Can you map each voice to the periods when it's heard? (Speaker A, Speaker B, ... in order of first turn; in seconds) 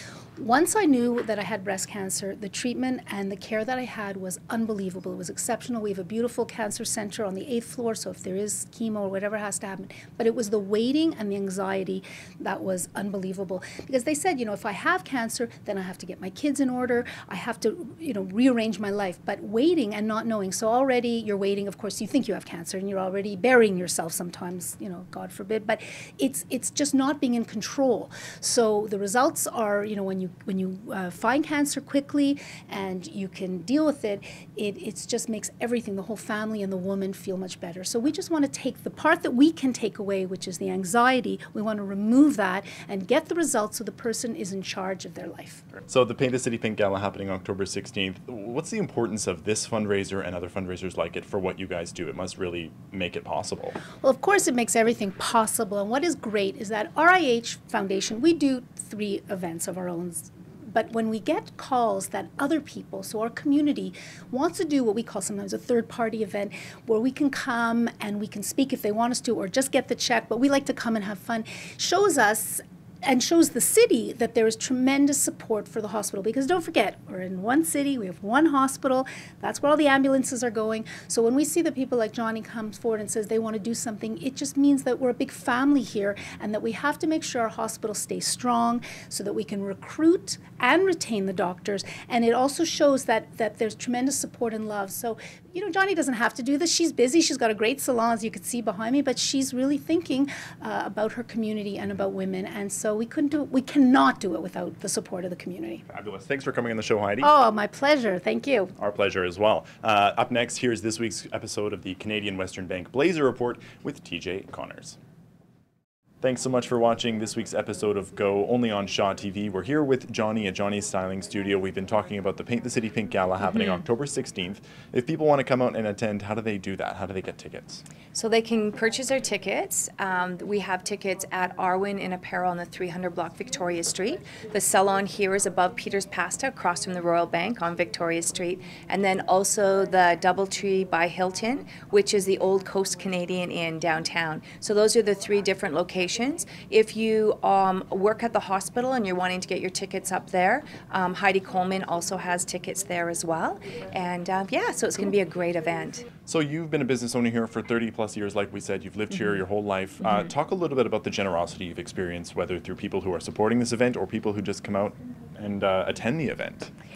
Speaker A: 0.4-45.7, 54.0-105.8, 107.2-108.7
Speaker B: 45.9-53.8, 105.9-107.3, 108.8-115.0, 116.2-127.8, 156.2-166.7
Speaker C: 128.1-156.1